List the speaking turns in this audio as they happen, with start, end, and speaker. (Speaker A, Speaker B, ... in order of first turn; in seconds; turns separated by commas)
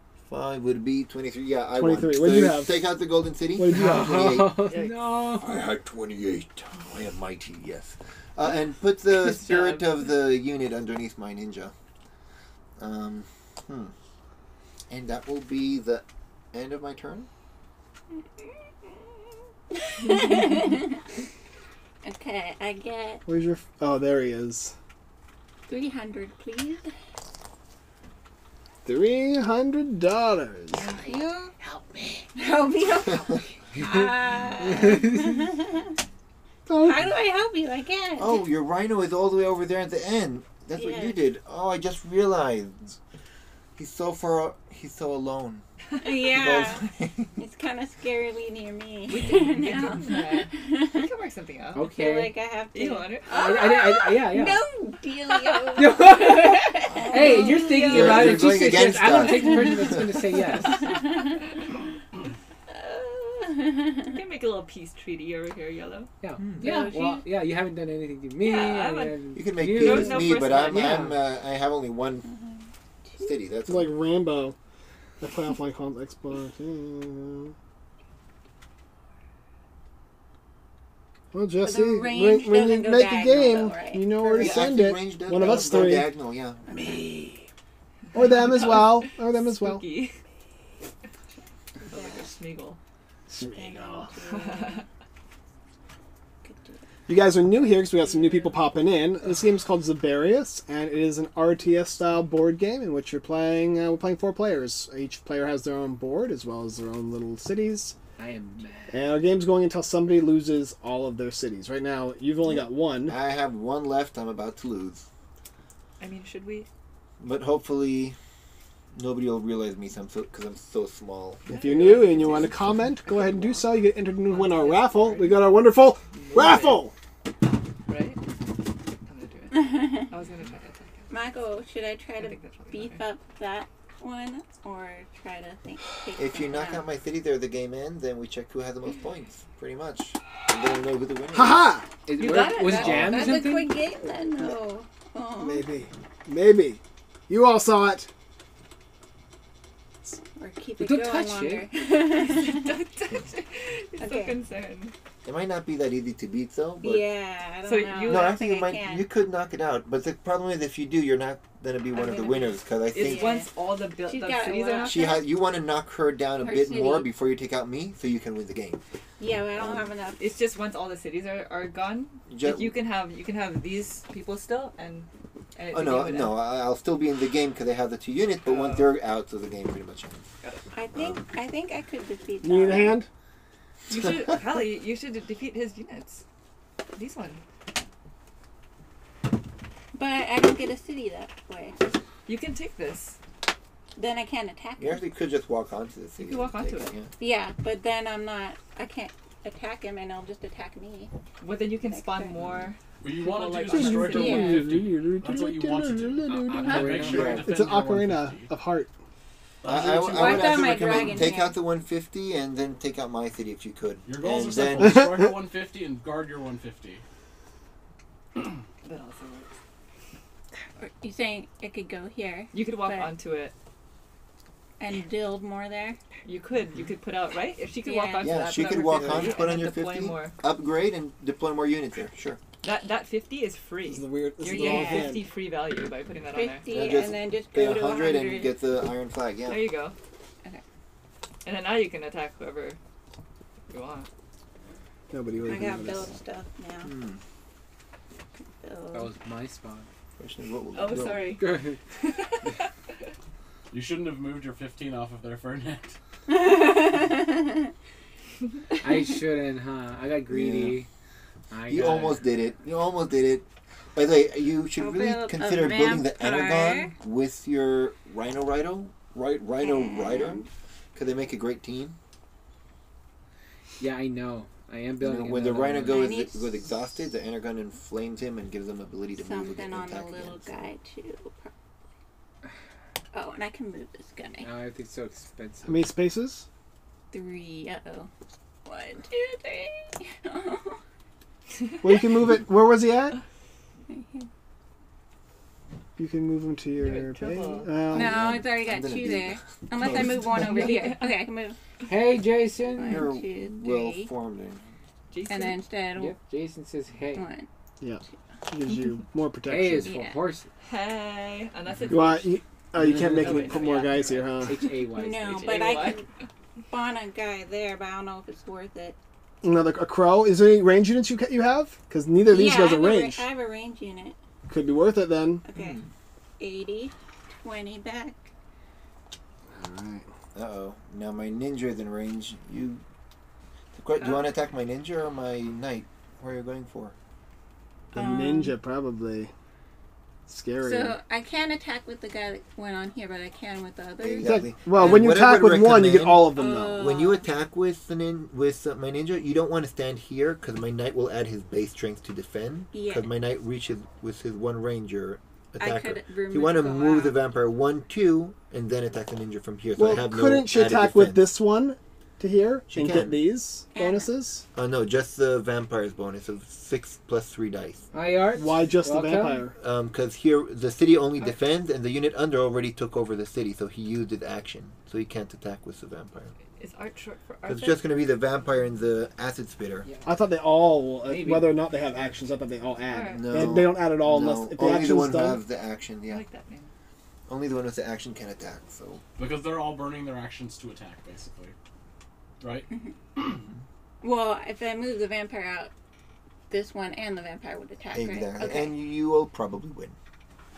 Speaker A: 0.2-4.6, Speaker B: 1.8-2.8, Speaker B: 3.6-4.4, Speaker C: 3.7-5.5, Speaker D: 4.7-5.0, Speaker A: 5.4-11.7, Speaker D: 9.1-10.1, Speaker A: 12.8-13.9, Speaker A: 14.9-17.3, Speaker E: 19.8-21.0, Speaker D: 20.0-20.5, Speaker E: 22.0-23.2, Speaker B: 23.3-24.7, Speaker E: 25.7-26.9, Speaker B: 28.9-31.0, Speaker E: 31.0-31.5, Speaker C: 31.6-32.3, Speaker E: 32.4-35.9, Speaker C: 33.8-35.4, Speaker B: 36.7-37.1, Speaker E: 36.8-38.5, Speaker A: 38.2-43.0, Speaker E: 40.8-41.2, Speaker A: 43.8-45.6, Speaker E: 46.0-51.1, Speaker A: 46.3-47.4, Speaker D: 49.1-51.9, Speaker C: 51.8-52.4, Speaker E: 51.8-58.4, Speaker D: 52.7-53.3, Speaker C: 53.3-54.6, Speaker C: 55.7-60.9, Speaker A: 56.9-60.2, Speaker D: 57.3-58.4, Speaker E: 59.3-60.0, Speaker E: 60.7-61.5, Speaker E: 62.7-64.2, Speaker D: 64.0-66.1, Speaker C: 66.2-71.2, Speaker A: 66.4-66.7, Speaker E: 66.6-67.2, Speaker D: 68.5-69.2, Speaker A: 69.3-72.3, Speaker D: 69.8-71.2, Speaker E: 72.3-73.3, Speaker A: 73.2-73.9, Speaker B: 73.7-74.6, Speaker B: 75.2-77.5, Speaker B: 81.3-86.1, Speaker E: 81.6-84.5, Speaker A: 84.2-86.7, Speaker B: 86.7-87.5, Speaker E: 86.7-87.0, Speaker B: 88.1-89.8, Speaker D: 88.2-90.2, Speaker E: 91.9-92.3, Speaker D: 91.9-92.8, Speaker B: 93.3-94.1, Speaker E: 93.4-94.8, Speaker D: 94.3-94.9, Speaker E: 96.4-96.8, Speaker B: 97.1-107.9, Speaker C: 108.2-109.0, Speaker B: 108.9-113.2, Speaker A: 112.4-115.1, Speaker D: 116.0-116.7, Speaker A: 117.2-118.2, Speaker A: 118.9-121.4, Speaker D: 121.5-125.5, Speaker B: 121.5-126.9, Speaker E: 121.8-122.5, Speaker D: 126.1-126.8, Speaker D: 127.9-128.2, Speaker D: 129.0-131.1, Speaker E: 129.5-130.1, Speaker E: 131.1-136.8, Speaker D: 132.2-133.0, Speaker A: 136.2-141.6, Speaker B: 141.3-141.9, Speaker C: 142.1-143.8, Speaker E: 142.2-145.7, Speaker D: 142.2-142.8, Speaker A: 142.8-143.2, Speaker B: 145.4-148.1, Speaker E: 150.4-152.8, Speaker C: 150.8-151.7, Speaker D: 152.1-154.9, Speaker E: 154.0-154.3, Speaker A: 155.2-157.0, Speaker E: 156.8-159.1, Speaker D: 157.7-158.5, Speaker A: 158.1-163.4, Speaker E: 161.9-163.5, Speaker D: 162.9-165.2, Speaker E: 164.1-165.2, Speaker A: 164.8-168.8, Speaker E: 166.4-167.0, Speaker D: 166.4-167.0, Speaker E: 169.2-170.2, Speaker A: 169.5-169.9, Speaker D: 170.2-176.4, Speaker A: 172.3-172.7, Speaker A: 175.7-180.2, Speaker D: 178.4-179.0, Speaker E: 180.7-183.0, Speaker A: 180.9-181.2, Speaker B: 182.4-183.1, Speaker D: 183.9-186.2, Speaker D: 186.9-187.4, Speaker E: 189.9-191.8, Speaker D: 192.3-193.2, Speaker E: 194.0-195.0, Speaker A: 194.8-197.1, Speaker D: 196.2-196.9, Speaker E: 197.2-201.1, Speaker D: 201.4-202.8, Speaker E: 201.9-202.3, Speaker A: 202.4-202.7, Speaker F: 203.0-208.5, Speaker C: 203.2-204.4, Speaker B: 203.4-208.9, Speaker E: 204.0-204.7, Speaker C: 206.3-207.4, Speaker A: 207.0-207.5, Speaker F: 209.6-211.2, Speaker A: 209.7-215.1, Speaker E: 210.0-211.6, Speaker F: 214.1-217.0, Speaker B: 214.8-215.4, Speaker D: 218.8-219.6, Speaker E: 220.8-223.1, Speaker D: 222.5-223.5, Speaker E: 224.8-226.0, Speaker D: 226.2-230.4, Speaker E: 227.8-228.7, Speaker A: 228.2-232.4, Speaker D: 232.6-237.0, Speaker B: 233.9-235.2, Speaker E: 234.5-235.2, Speaker E: 236.3-238.6, Speaker A: 236.7-239.6, Speaker D: 239.5-239.9, Speaker D: 241.4-242.8, Speaker D: 243.7-244.1, Speaker B: 245.1-246.2, Speaker E: 245.4-246.9, Speaker A: 246.8-247.2, Speaker E: 248.4-249.1, Speaker C: 248.9-249.9, Speaker A: 250.2-251.3, Speaker D: 250.7-252.7, Speaker C: 251.4-251.8, Speaker F: 253.7-255.9, Speaker E: 256.3-257.7, Speaker C: 258.8-260.9, Speaker A: 260.3-260.8, Speaker C: 261.5-262.3, Speaker A: 261.7-270.4, Speaker E: 264.8-266.9, Speaker E: 269.6-270.5, Speaker A: 270.9-272.0, Speaker C: 273.8-276.1, Speaker A: 275.0-280.7, Speaker E: 275.8-276.5, Speaker E: 279.2-281.5, Speaker E: 283.1-284.5, Speaker C: 284.4-285.9, Speaker B: 285.6-286.5, Speaker E: 287.1-288.1, Speaker E: 288.6-290.8, Speaker B: 291.8-293.2, Speaker E: 293.9-294.3, Speaker B: 296.0-298.3, Speaker D: 296.8-297.7, Speaker A: 297.9-300.9, Speaker E: 297.9-301.6, Speaker D: 300.4-301.0, Speaker C: 301.9-303.1, Speaker E: 302.7-304.1, Speaker A: 302.8-304.6, Speaker D: 305.1-305.6, Speaker E: 305.3-306.2, Speaker C: 306.0-307.3, Speaker E: 307.1-307.5, Speaker B: 307.8-309.9, Speaker C: 309.5-310.5, Speaker E: 309.8-310.2, Speaker D: 310.6-312.3, Speaker B: 311.9-314.6, Speaker C: 312.8-315.7, Speaker F: 312.8-313.3, Speaker D: 313.1-314.8, Speaker E: 314.9-316.1, Speaker D: 315.3-316.0, Speaker E: 316.7-319.0, Speaker B: 319.4-323.3, Speaker E: 322.3-324.2, Speaker B: 324.5-325.4, Speaker E: 325.4-325.8, Speaker A: 325.6-325.9, Speaker E: 326.4-328.3, Speaker B: 329.5-330.1, Speaker A: 330.4-332.8, Speaker A: 333.7-336.9, Speaker D: 334.0-334.3, Speaker B: 337.9-339.3, Speaker E: 337.9-338.6, Speaker B: 340.3-341.0, Speaker E: 340.6-344.9, Speaker A: 344.0-361.3, Speaker B: 344.2-346.8, Speaker E: 346.4-347.3, Speaker E: 352.7-353.1, Speaker E: 355.6-357.2, Speaker B: 359.8-364.4, Speaker A: 362.7-363.2, Speaker E: 363.7-364.1, Speaker A: 364.6-367.9, Speaker C: 367.9-369.5, Speaker B: 368.4-369.6, Speaker A: 369.6-376.3, Speaker D: 376.6-377.8, Speaker A: 377.5-379.9, Speaker C: 379.9-380.1, Speaker B: 380.1-385.4, Speaker C: 381.0-382.2, Speaker D: 382.9-383.6, Speaker A: 383.2-386.2, Speaker D: 386.1-386.7, Speaker A: 387.3-389.0, Speaker F: 389.2-391.6, Speaker F: 392.4-392.7, Speaker E: 394.0-395.7, Speaker E: 396.5-398.8, Speaker A: 397.9-400.0